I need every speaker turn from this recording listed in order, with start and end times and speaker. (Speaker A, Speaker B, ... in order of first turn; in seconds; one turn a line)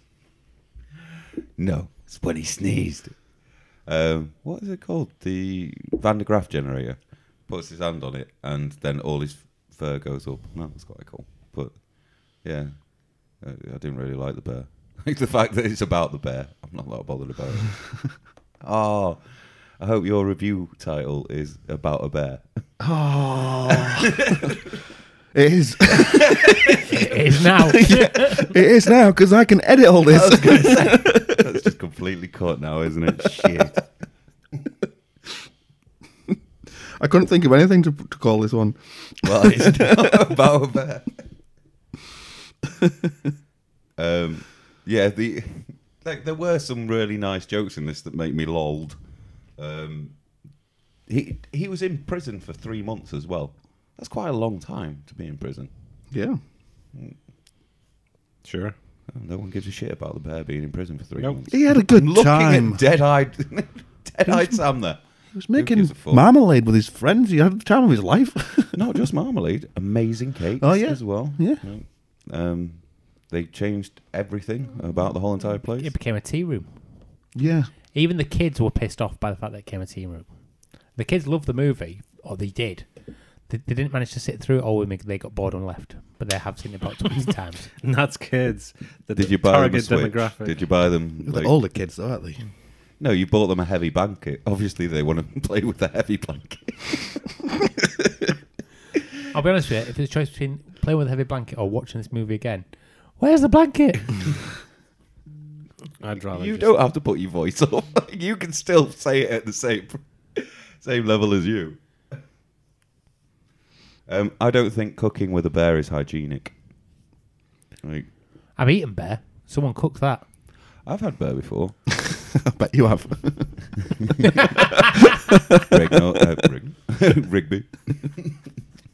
Speaker A: 1.6-11.8
Speaker A: 12.4-17.8
Speaker A: 18.6-22.5
Speaker B: 22.8-24.5
Speaker A: 24.1-24.5
Speaker B: 25.3-31.5
Speaker A: 25.9-26.8
Speaker C: 26.9-28.6
Speaker A: 30.1-33.8
Speaker B: 36.8-40.0
Speaker A: 39.2-41.3
Speaker A: 44.0-49.0
Speaker A: 49.6-50.2
Speaker A: 51.1-55.7
Speaker B: 56.1-56.4
Speaker D: 58.4-58.8
Speaker A: 59.1-66.3
Speaker B: 61.5-62.8
Speaker B: 64.3-64.6
Speaker B: 65.3-68.8
Speaker A: 68.7-75.9
Speaker B: 70.6-71.7
Speaker C: 75.7-87.7
Speaker B: 77.3-77.7
Speaker D: 87.8-90.7
Speaker A: 89.2-91.6
Speaker B: 91.2-92.4
Speaker A: 93.0-98.3
Speaker C: 99.3-104.5
Speaker D: 106.0-106.8
Speaker A: 106.3-112.2
Speaker A: 114.1-116.5
Speaker A: 117.8-118.1
Speaker C: 118.6-120.3
Speaker A: 120.8-121.8
Speaker B: 122.1-124.4
Speaker B: 125.1-125.7
Speaker A: 125.7-128.4